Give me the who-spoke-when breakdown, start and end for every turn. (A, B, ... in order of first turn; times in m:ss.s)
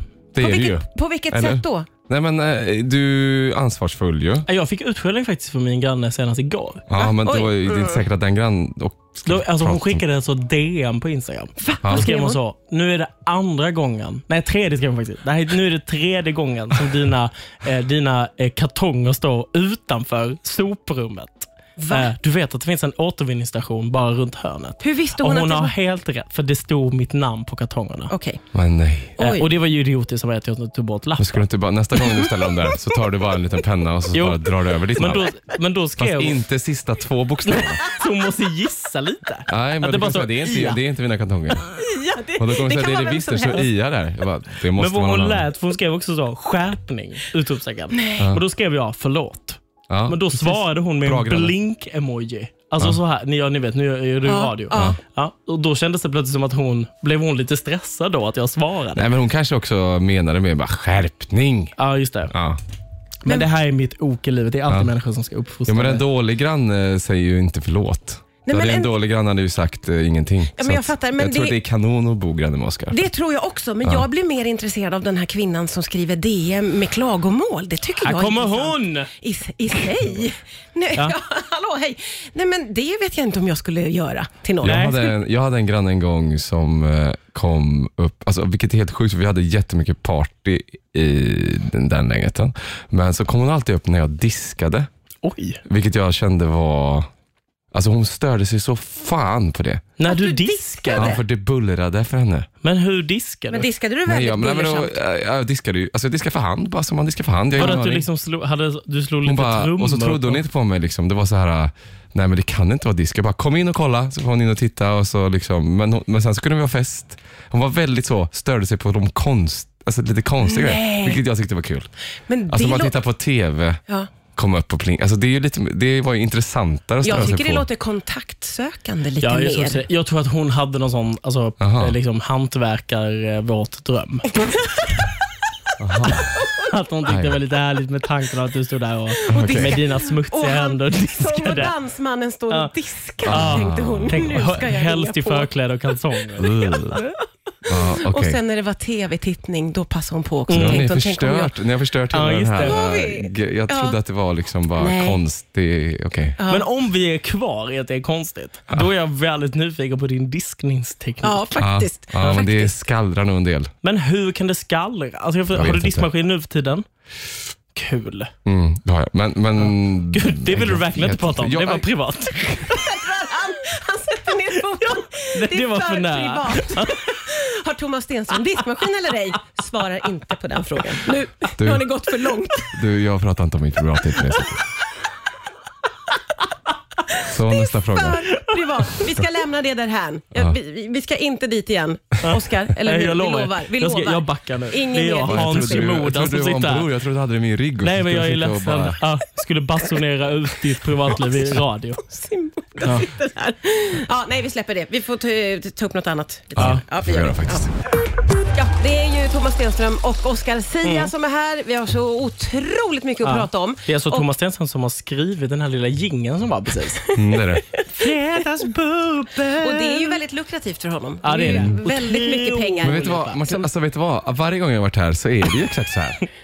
0:00.3-0:04.5 A
0:00.4-0:01.9 B
0:04.5-0:06.8 C
0:06.9-0:10.0 A
0:07.0-0:08.0 B
0:09.2-0:28.1 C
0:11.6-0:12.4 B
0:11.8-0:12.1 A
0:21.8-0:22.1 B
0:24.8-0:25.7 B
0:28.1-0:28.4 B
0:28.5-0:29.2 A
0:29.2-0:29.5 B
0:29.2-0:31.4 C
0:31.2-0:35.4 A
0:32.1-0:32.8 B
0:34.1-0:36.4 C
0:36.0-0:37.8 A
0:37.4-0:40.8 C
0:39.5-0:41.7 A
0:41.7-0:43.7 B
0:42.4-0:45.5 A
0:44.8-0:59.1 C
0:47.9-0:48.3 B
0:48.2-0:48.4 A
0:49.9-0:51.6 A
0:54.3-0:55.0 B
0:54.7-0:55.0 A
0:59.0-1:01.7 A
1:01.8-1:02.3 C
1:02.3-1:02.6 A
1:03.2-1:06.0 C
1:05.7-1:13.0 A
1:08.4-1:08.9 B
1:10.6-1:11.6 B
1:12.9-1:25.2 B
1:18.0-1:19.1 C
1:24.6-1:34.9 A
1:24.6-1:25.0 C
1:35.2-1:35.6 C
1:35.6-1:37.1 A
1:37.7-1:39.9 A
1:40.0-1:41.2 C
1:40.1-1:41.2 B
1:41.0-1:42.5 A
1:42.6-1:43.7 C
1:43.5-1:45.0 B
1:44.1-1:48.1 A
1:47.6-1:50.4 C
1:49.2-2:01.9 A
2:00.4-2:01.2 B
2:02.3-2:03.0 B
2:02.5-2:03.8 A
2:04.4-2:07.7 A
2:07.0-2:09.8 B
2:09.2-2:14.4 C
2:11.6-2:12.0 A
2:15.8-2:16.4 A
2:16.3-2:16.7 B
2:16.7-2:21.8 C
2:17.1-2:17.4 A
2:19.3-2:25.5 B
2:19.3-2:19.8 A
2:23.2-2:24.6 A
2:23.3-2:26.6 C
2:26.4-2:27.0 A
2:26.4-2:31.6 B
2:27.7-2:28.4 A
2:30.5-2:30.8 C
2:30.5-2:36.4 A
2:32.1-2:32.8 C
2:32.6-2:34.0 B
2:34.8-2:35.2 B
2:36.4-2:36.7 B
2:36.5-2:41.5 C
2:41.2-2:42.8 B
2:41.6-2:43.7 A
2:43.8-2:46.9 C
2:45.5-2:46.1 A
2:47.7-2:48.3 C
2:48.4-2:52.7 A
2:49.6-2:52.8 C
2:52.7-3:02.8 B
2:54.6-2:57.2 C
3:01.6-3:01.9 A
3:02.7-3:04.6 A
3:07.1-3:16.0 B
3:07.3-3:08.3 A
3:08.3-3:09.1 C
3:12.2-3:16.9 C
3:15.2-3:19.0 A
3:17.8-3:22.0 C
3:22.1-3:27.7 B
3:22.8-3:23.1 C
3:26.6-3:27.7 A
3:28.5-3:34.3 B
3:30.8-3:31.1 C
3:33.2-3:37.1 C
3:37.2-3:37.7 A
3:37.7-3:38.1 B
3:37.9-3:40.2 C
3:39.6-3:43.7 B
3:41.2-3:43.4 C
3:41.4-3:41.8 A
3:42.8-3:46.2 A